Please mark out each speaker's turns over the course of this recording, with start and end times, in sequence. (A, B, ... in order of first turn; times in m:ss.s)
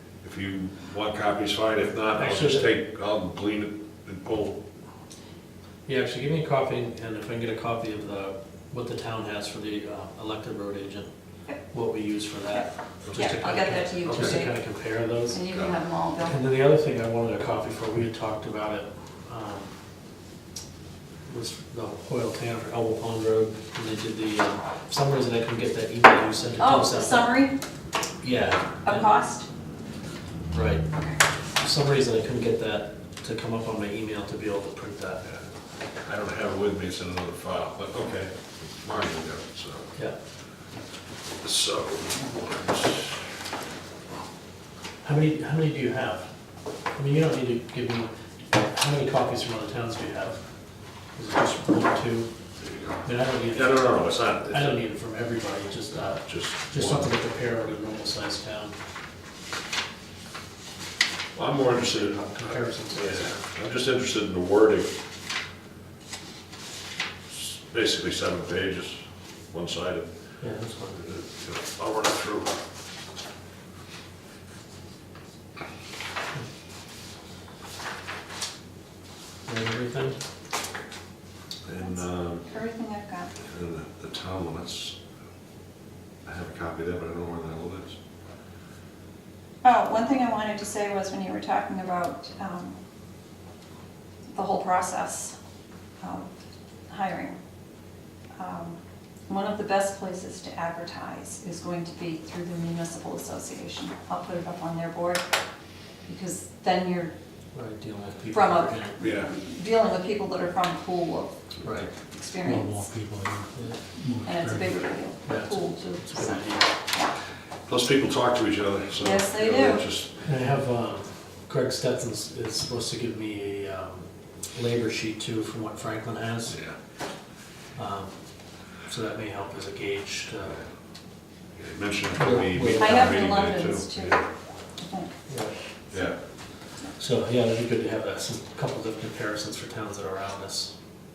0:00.2-0:04.6 A
0:02.2-0:02.7 B
0:05.8-0:11.1 B
0:11.7-0:15.4 B
0:12.5-0:14.5 C
0:13.0-0:13.4 A
0:14.0-0:14.4 A
0:15.3-0:16.4 C
0:15.5-0:15.8 A
0:16.2-0:19.7 B
0:21.3-0:27.3 B
0:26.6-0:27.5 C
0:28.2-0:29.1 B
0:28.8-0:29.4 C
0:30.5-0:30.9 B
0:30.9-0:31.2 C
0:31.6-0:35.3 B
0:36.0-0:39.9 A
0:41.4-0:43.3 A
0:45.0-0:46.3 B
0:46.9-0:50.4 B
0:51.1-0:52.3 B
0:52.6-0:54.8 A
0:53.0-0:58.7 B
0:56.2-0:57.1 A
1:01.3-1:04.9 A
1:02.1-1:03.4 B
1:07.3-1:10.1 A
1:10.4-1:11.0 B
1:11.0-1:12.6 A
1:19.4-1:20.2 B
1:21.6-1:22.5 A
1:21.8-1:23.3 C
1:23.4-1:25.0 A
1:26.2-1:28.0 A
1:29.6-1:32.7 C
1:34.3-1:35.3 C
1:36.0-1:36.3 C
1:36.9-1:37.4 C
1:38.4-1:45.2 C
1:46.1-1:47.1 C
1:47.5-1:49.0 B
1:48.3-1:51.3 C
1:49.0-1:49.3 A
1:51.6-1:51.9 B
1:52.1-1:52.9 C
1:52.4-1:54.8 D
1:54.2-1:57.1 C
1:55.2-1:56.7 B
1:57.7-2:00.2 A
1:59.0-1:59.8 C
2:00.2-2:06.6 B
2:06.5-2:06.8 A
2:07.7-2:08.2 B
2:08.8-2:10.6 B
2:11.6-2:14.2 A
2:12.2-2:13.1 B
2:12.8-2:14.2 C
2:14.8-2:15.1 C
2:15.3-2:15.5 B
2:17.0-2:20.7 B